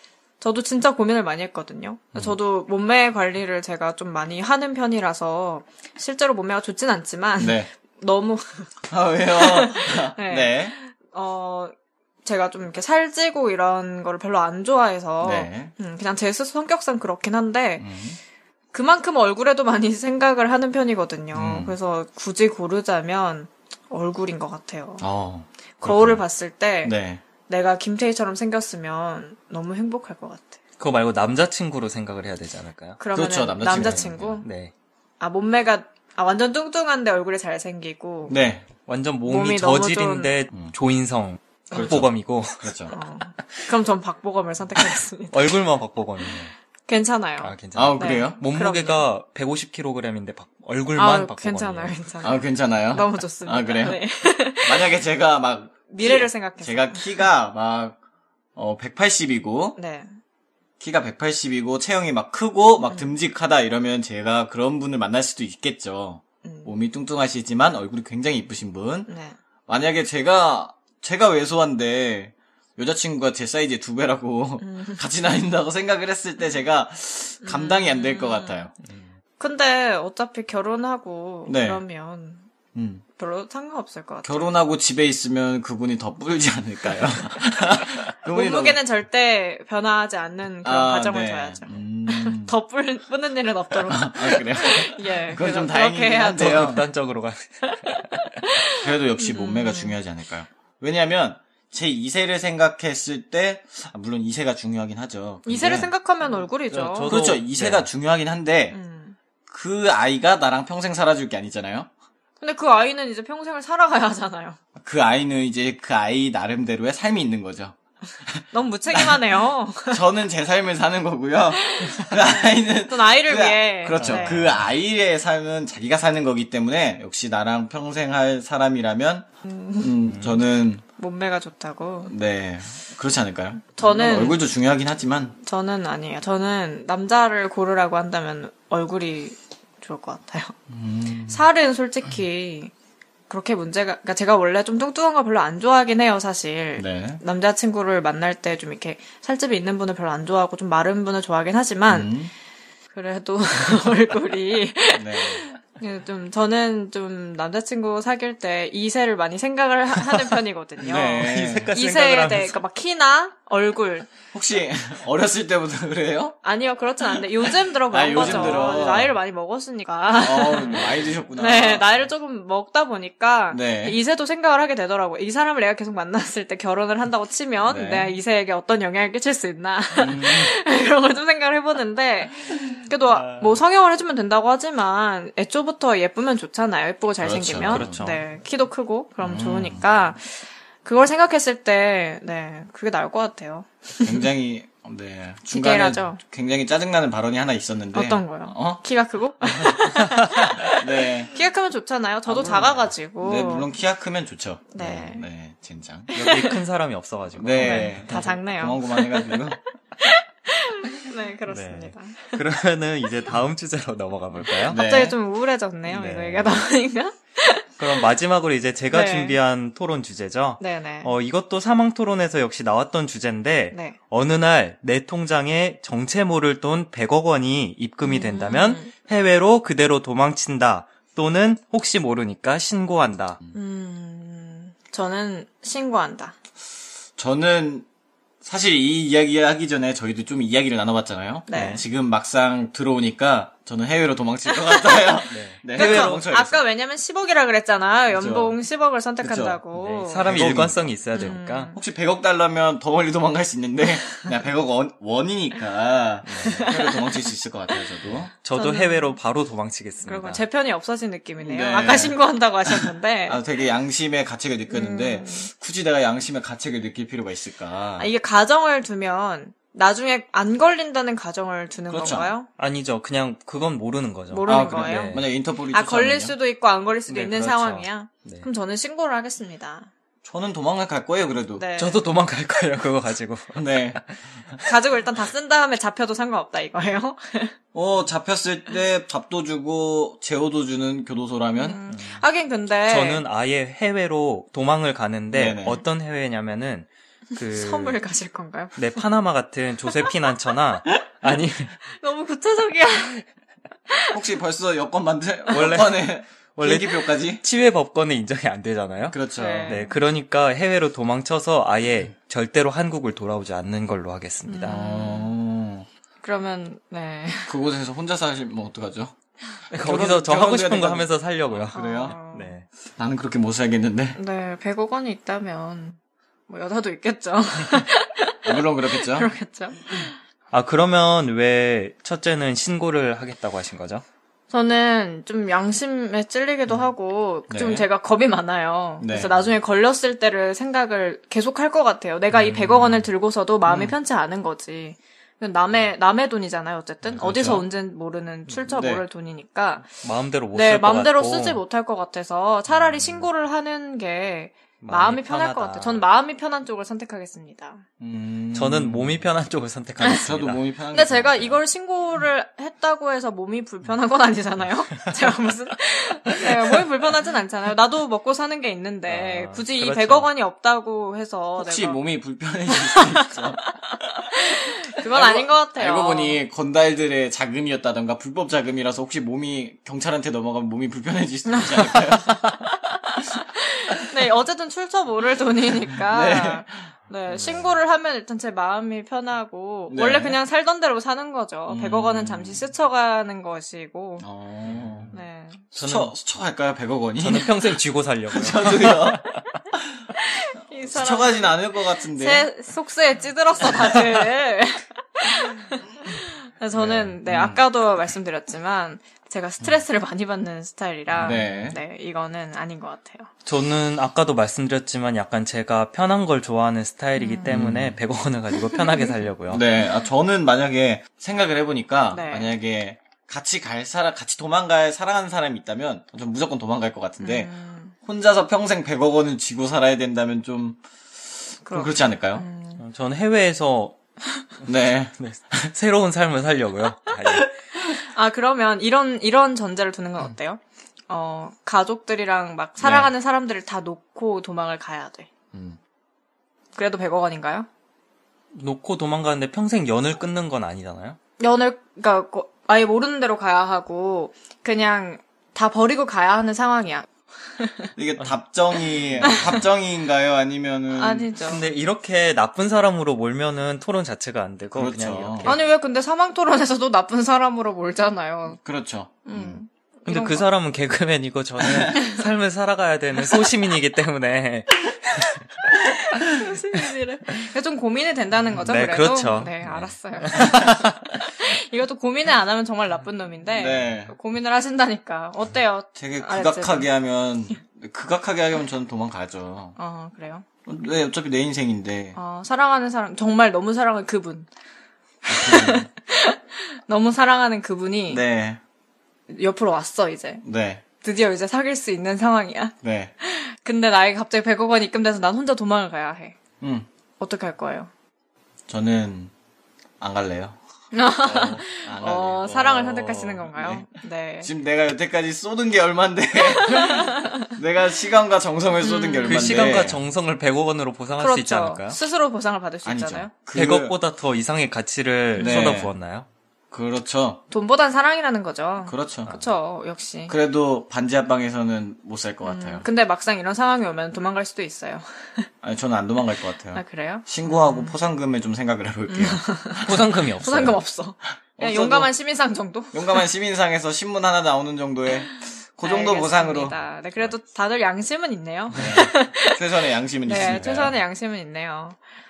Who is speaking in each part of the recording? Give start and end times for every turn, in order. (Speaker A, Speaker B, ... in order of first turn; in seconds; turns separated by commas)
Speaker A: 0.4-17.9, Speaker B: 7.4-7.7, Speaker B: 8.8-10.8, Speaker B: 15.2-15.7, Speaker B: 17.8-18.2, Speaker A: 18.7-25.1, Speaker B: 21.3-21.8, Speaker B: 25.0-26.2, Speaker A: 25.8-26.9, Speaker B: 26.8-27.2, Speaker A: 27.5-30.6, Speaker C: 30.8-33.0, Speaker A: 33.0-34.5, Speaker B: 33.1-34.4, Speaker C: 33.6-34.7, Speaker A: 35.2-38.4, Speaker B: 38.3-38.7, Speaker C: 38.9-42.9, Speaker A: 39.2-40.4, Speaker B: 41.7-42.9, Speaker A: 42.9-45.6, Speaker C: 45.3-46.5, Speaker A: 46.9-49.1, Speaker C: 47.4-52.0, Speaker B: 47.7-48.4, Speaker A: 51.0-54.9, Speaker B: 52.2-58.0, Speaker A: 55.9-57.3, Speaker B: 58.6-59.8, Speaker A: 59.8-60.1, Speaker B: 60.8-69.1, Speaker A: 66.4-66.7, Speaker A: 69.1-69.4, Speaker B: 69.7-78.7, Speaker A: 74.6-75.0, Speaker A: 77.4-78.7, Speaker C: 78.8-79.1, Speaker A: 79.4-82.5, Speaker B: 81.5-81.8, Speaker B: 82.8-83.0, Speaker A: 83.2-84.5, Speaker B: 84.2-88.8, Speaker A: 88.2-96.7, Speaker B: 90.6-92.5, Speaker B: 93.9-96.8, Speaker C: 96.4-98.5, Speaker A: 98.5-100.0, Speaker B: 98.8-105.9, Speaker A: 105.5-107.2, Speaker C: 106.2-107.9, Speaker B: 107.1-108.8, Speaker A: 108.7-109.2, Speaker B: 109.5-111.9, Speaker A: 112.4-114.6, Speaker B: 114.8-117.8, Speaker B: 118.3-119.2, Speaker A: 118.5-120.0, Speaker B: 119.9-129.3, Speaker A: 121.5-124.5, Speaker C: 124.0-124.7, Speaker A: 129.4-130.0, Speaker B: 129.8-130.8, Speaker C: 130.1-130.3, Speaker A: 131.0-132.1, Speaker B: 132.1-135.4, Speaker A: 133.8-134.4, Speaker A: 135.4-140.6, Speaker B: 140.7-141.5, Speaker A: 141.3-142.7, Speaker A: 143.3-152.1, Speaker B: 146.8-147.2, Speaker B: 151.9-152.3, Speaker A: 152.9-164.1, Speaker B: 154.9-155.5, Speaker B: 160.8-161.7, Speaker C: 160.9-162.6, Speaker B: 164.3-166.4, Speaker A: 166.4-194.2, Speaker B: 167.0-169.2, Speaker C: 168.2-168.7, Speaker B: 170.2-172.1, Speaker B: 173.5-174.0, Speaker B: 177.6-178.1, Speaker B: 179.9-180.5, Speaker C: 183.1-183.6, Speaker B: 187.2-188.0, Speaker C: 187.7-188.2, Speaker B: 189.2-189.9, Speaker B: 194.0-198.8, Speaker A: 195.5-196.2, Speaker A: 197.9-203.7, Speaker B: 200.6-201.3, Speaker B: 202.2-206.2, Speaker A: 204.7-205.3, Speaker A: 206.1-206.6, Speaker C: 206.2-208.2, Speaker B: 207.4-209.6, Speaker A: 207.6-212.4, Speaker C: 211.5-214.8, Speaker A: 214.7-217.8, Speaker B: 214.7-215.2, Speaker C: 215.9-216.6, Speaker C: 217.8-233.4, Speaker A: 218.9-219.4, Speaker A: 220.6-221.1, Speaker A: 223.7-224.0, Speaker A: 228.0-228.9, Speaker A: 233.5-236.3, Speaker B: 237.2-237.9, Speaker B: 238.4-246.6, Speaker A: 241.5-241.8, Speaker C: 241.5-241.8, Speaker A: 244.5-250.4, Speaker C: 245.3-246.2, Speaker B: 248.1-248.6, Speaker B: 249.2-258.3, Speaker C: 250.1-251.8, Speaker A: 251.1-251.8, Speaker C: 256.2-256.7, Speaker A: 256.4-257.9, Speaker C: 258.4-260.4, Speaker A: 258.5-259.2, Speaker A: 260.0-263.4, Speaker B: 261.4-268.1, Speaker A: 264.7-265.5, Speaker A: 268.0-272.5, Speaker B: 271.9-272.3, Speaker C: 272.6-275.2, Speaker A: 274.3-279.9, Speaker B: 274.5-276.4, Speaker C: 277.1-278.5, Speaker B: 280.2-281.7, Speaker A: 281.6-282.0, Speaker C: 281.8-284.2, Speaker B: 283.6-284.0, Speaker A: 284.6-287.6, Speaker B: 287.7-291.8, Speaker A: 291.6-293.2, Speaker C: 291.9-292.2, Speaker C: 292.9-298.0, Speaker B: 295.3-295.8, Speaker A: 297.4-299.1, Speaker C: 298.8-301.8, Speaker A: 301.9-303.2, Speaker A: 303.9-304.2, Speaker B: 304.1-307.4, Speaker C: 305.5-314.8, Speaker B: 309.1-309.8, Speaker A: 309.4-309.9, Speaker A: 314.5-315.3, Speaker B: 314.7-315.9, Speaker A: 316.2-317.6, Speaker B: 317.5-319.1, Speaker C: 319.7-322.7, Speaker B: 319.7-322.2, Speaker A: 321.7-322.6, Speaker B: 323.0-324.2, Speaker A: 324.2-330.2, Speaker B: 328.4-329.3, Speaker C: 330.5-334.0, Speaker A: 334.5-350.0, Speaker B: 337.5-337.9, Speaker B: 339.0-339.5, Speaker B: 342.3-343.1, Speaker B: 343.7-344.0, Speaker B: 347.1-347.7, Speaker B: 348.7-349.0, Speaker C: 350.0-351.6, Speaker A: 350.5-357.8, Speaker B: 352.7-353.3, Speaker C: 354.8-356.1, Speaker B: 358.0-359.3, Speaker C: 358.5-360.6, Speaker A: 360.0-360.3, Speaker B: 360.0-361.6, Speaker A: 360.9-372.1, Speaker C: 369.1-370.3, Speaker B: 371.6-373.7, Speaker A: 372.7-373.6, Speaker A: 374.2-376.4, Speaker B: 375.0-382.6, Speaker A: 381.5-394.3, Speaker B: 386.0-387.8, Speaker B: 389.9-390.4, Speaker B: 391.7-392.7, Speaker B: 394.2-395.1, Speaker C: 394.7-395.1, Speaker A: 395.1-395.6, Speaker C: 395.8-396.1, Speaker B: 395.8-399.2, Speaker C: 397.2-399.4, Speaker A: 400.1-413.3, Speaker B: 400.8-402.5, Speaker B: 406.7-407.6, Speaker C: 411.1-411.6, Speaker B: 411.2-411.8, Speaker C: 413.5-419.6, Speaker A: 417.2-417.6, Speaker B: 417.5-418.0, Speaker B: 419.5-427.5, Speaker A: 422.1-422.5, Speaker A: 427.2-427.9, Speaker B: 428.0-430.8, Speaker B: 431.5-432.5, Speaker A: 431.6-432.8, Speaker C: 432.8-433.9, Speaker B: 434.7-435.7, Speaker C: 435.2-437.5, Speaker A: 437.8-445.3, Speaker B: 442.8-443.1, Speaker B: 445.5-445.8, Speaker A: 446.8-447.7, Speaker C: 448.5-451.2, Speaker A: 451.4-457.9, Speaker B: 457.9-461.3, Speaker C: 458.9-459.6, Speaker A: 460.9-461.7, Speaker C: 461.4-465.7, Speaker B: 464.7-465.6, Speaker A: 465.4-468.6, Speaker B: 468.6-469.6, Speaker A: 469.2-470.5, Speaker C: 470.1-475.7, Speaker B: 471.6-472.0, Speaker A: 475.9-486.9, Speaker C: 478.6-481.1, Speaker B: 483.5-484.2, Speaker B: 485.9-489.8, Speaker A: 489.8-490.4, Speaker B: 490.7-492.2, Speaker A: 492.1-494.5, Speaker A: 495.2-498.2, Speaker B: 495.3-495.9, Speaker B: 498.1-498.6, Speaker A: 499.3-500.4, Speaker B: 500.4-500.8, Speaker A: 501.0-506.4, Speaker B: 502.8-503.1, Speaker B: 506.6-506.9, Speaker A: 507.2-507.9, Speaker B: 508.7-509.3, Speaker B: 510.0-510.6, Speaker A: 510.9-514.5, Speaker B: 511.2-520.0, Speaker A: 516.6-517.4, Speaker A: 518.8-519.8, Speaker C: 519.2-522.0, Speaker A: 521.2-523.3, Speaker B: 522.8-524.0, Speaker C: 523.5-526.3, Speaker A: 525.4-525.8, Speaker B: 525.4-525.9, Speaker B: 526.7-527.4, Speaker A: 527.5-530.4, Speaker B: 528.9-529.5, Speaker B: 530.3-532.9, Speaker A: 532.4-535.5, Speaker B: 535.6-539.4, Speaker A: 536.7-538.0, Speaker A: 539.1-543.3, Speaker C: 539.8-540.8, Speaker B: 541.5-542.1, Speaker B: 542.9-547.3, Speaker A: 545.8-549.6, Speaker B: 548.7-551.0, Speaker A: 550.2-552.0, Speaker C: 550.3-550.8